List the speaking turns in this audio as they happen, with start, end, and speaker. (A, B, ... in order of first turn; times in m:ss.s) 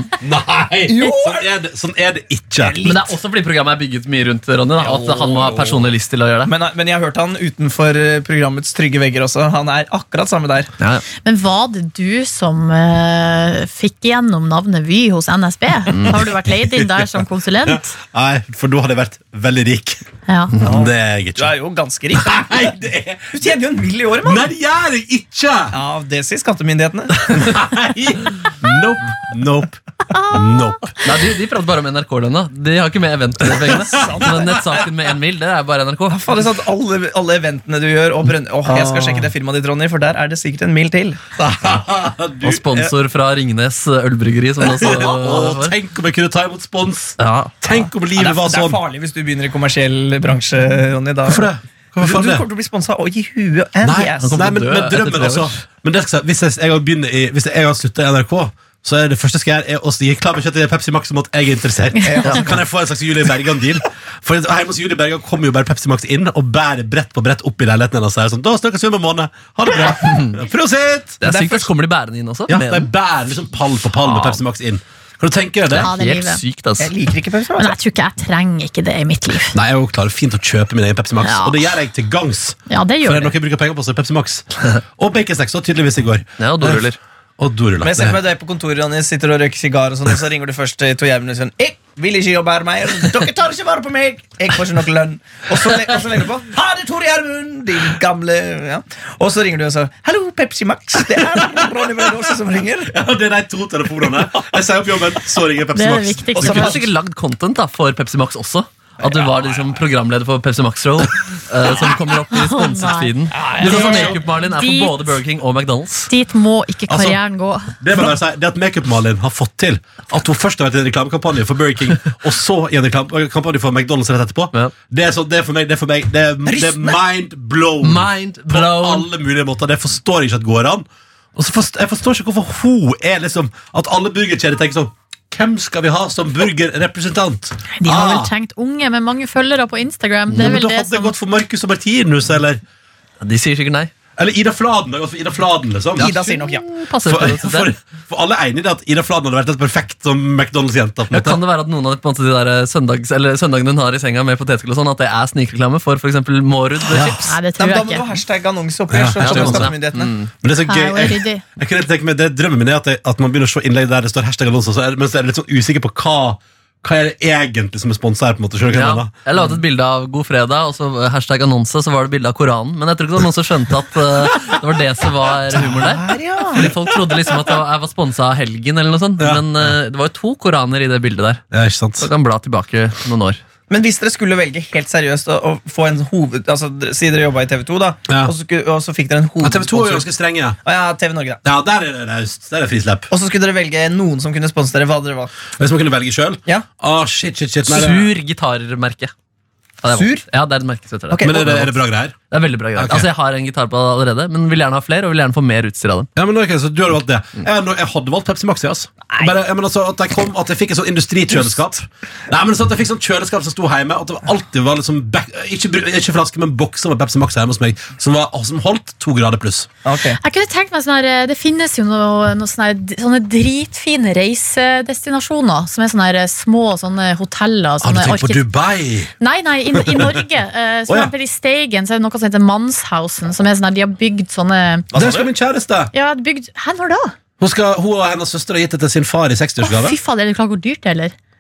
0:00.2-0:02.8 A
0:00.9-0:01.5 B
0:02.6-0:03.1 B
0:02.8-0:06.5 C
0:04.8-0:05.8 B
0:06.5-0:10.7 B
0:11.2-0:17.9 D
0:16.6-0:17.0 A
0:17.7-0:20.0 A
0:20.3-0:20.5 D
0:20.6-0:21.5 A
0:20.6-0:22.5 B
0:22.1-0:23.3 A
0:23.3-0:24.4 B
0:24.2-0:25.8 A
0:25.7-0:27.4 B
0:27.3-0:30.9 A
0:30.1-0:30.6 D
0:31.0-0:36.4 C
0:33.5-0:34.3 A
0:33.9-0:34.7 B
0:36.1-0:41.2 B
0:38.6-0:39.3 A
0:41.4-0:42.6 A
0:42.4-0:45.7 C
0:44.6-0:48.8 A
0:47.2-0:47.5 C
0:48.1-0:51.5 B
0:51.2-0:52.4 A
0:52.0-0:54.4 B
0:53.8-1:11.2 A
0:54.2-0:55.6 C
1:02.0-1:02.6 B
1:09.9-1:10.3 C
1:11.2-1:12.9 C
1:11.2-1:11.7 B
1:12.5-1:15.9 A
1:14.1-1:14.4 C
1:15.7-1:16.9 C
1:15.8-1:16.4 D
1:16.8-1:17.8 B
1:17.6-1:19.5 D
1:19.5-1:24.4 A
1:21.2-1:21.6 D
1:22.7-1:23.3 D
1:25.0-1:26.8 A
1:26.4-1:27.0 C
1:27.4-1:28.2 A
1:27.8-1:42.9 B
1:42.9-1:46.7 A
1:45.7-1:46.7 D
1:46.4-1:46.8 B
1:46.4-1:56.1 C
1:52.3-1:55.1 D
1:53.3-1:54.2 B
1:53.6-1:54.0 A
1:56.1-1:57.8 D
1:56.9-1:57.2 A
1:57.8-2:18.3 A
2:06.4-2:07.0 B
2:07.8-2:09.1 C
2:17.7-2:21.1 D
2:20.3-2:22.6 A
2:23.2-2:23.9 C
2:24.2-2:26.3 A
2:26.0-2:26.6 B
2:26.3-2:27.7 C
2:27.0-2:31.4 A
2:31.1-2:37.3 C
2:36.9-2:37.3 A
2:37.1-2:38.0 D
2:37.6-2:40.1 B
2:38.9-2:39.7 A
2:39.2-2:40.3 C
2:40.4-2:49.1 A
2:40.6-2:41.4 D
2:48.7-3:01.4 C
2:55.6-2:56.7 B
2:59.2-2:59.7 A
3:01.5-3:02.1 A
3:02.0-3:03.4 C
3:03.7-3:10.1 B
3:09.4-3:10.6 A
3:10.6-3:11.4 B
3:11.4-3:13.1 A
3:13.1-3:15.3 B
3:15.6-3:18.1 A
3:17.7-3:19.1 C
3:19.8-3:21.7 C
3:19.9-3:20.2 B
3:21.1-3:21.6 B
3:21.2-3:22.2 A
3:22.3-3:26.1 C
3:22.8-3:23.1 A
3:26.2-3:39.7 A
3:39.8-3:40.2 B
3:40.2-3:48.4 D
3:47.8-3:49.1 A
3:49.2-3:54.9 D
3:49.7-3:50.2 A
3:54.9-3:55.3 B
3:54.9-3:55.9 A
3:55.9-3:57.1 D
3:57.4-4:00.0 A
3:59.6-4:01.1 D